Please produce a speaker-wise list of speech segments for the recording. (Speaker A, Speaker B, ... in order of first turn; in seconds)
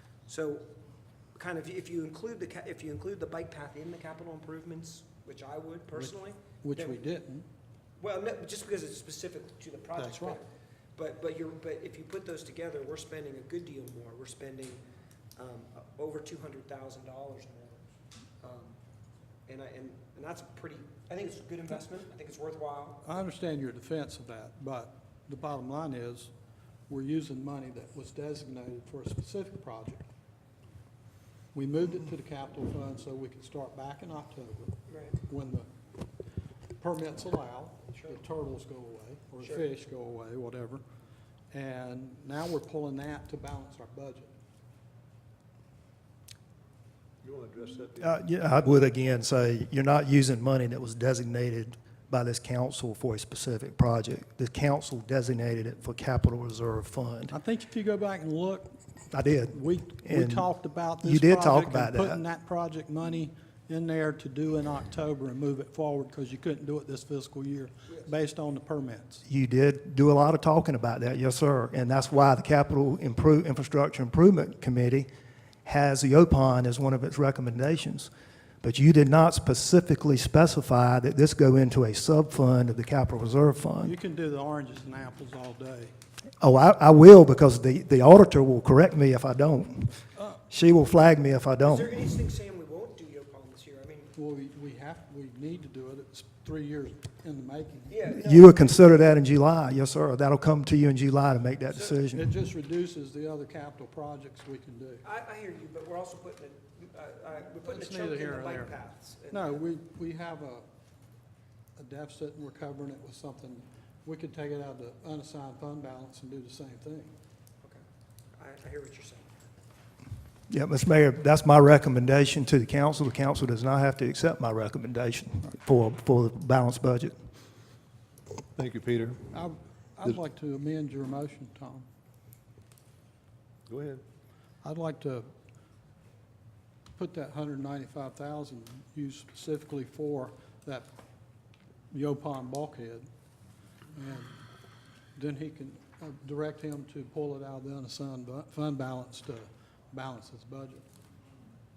Speaker A: 0.3-0.7, 1.4-7.0, 8.0-14.8, 15.4-17.9, 18.4-18.8, 19.5-23.1, 34.9-35.2, 39.4-39.7, 91.6-94.2, 97.9-98.8, 105.0-109.7, 118.4-119.3
Speaker B: 6.0-7.5, 10.0-10.4, 23.0-26.3, 26.9-30.1, 31.5-35.7, 36.8-40.8, 41.5-44.3, 57.3-58.7, 59.5-69.2, 83.8-85.9, 94.2-98.0, 101.9-105.0, 107.6-108.8, 109.3-110.7, 111.8-117.2, 129.3-131.9, 134.6-135.3, 137.0-140.9, 141.9-143.1, 143.9-144.4, 145.2-150.8
Speaker C: 47.2-48.1, 128.6-129.3, 133.7-134.0
Speaker D: 48.0-57.3, 59.1-60.5, 61.0-62.2, 69.3-75.1, 75.7-78.1, 78.6-84.0, 86.4-91.9, 98.1-102.3, 120.5-127.1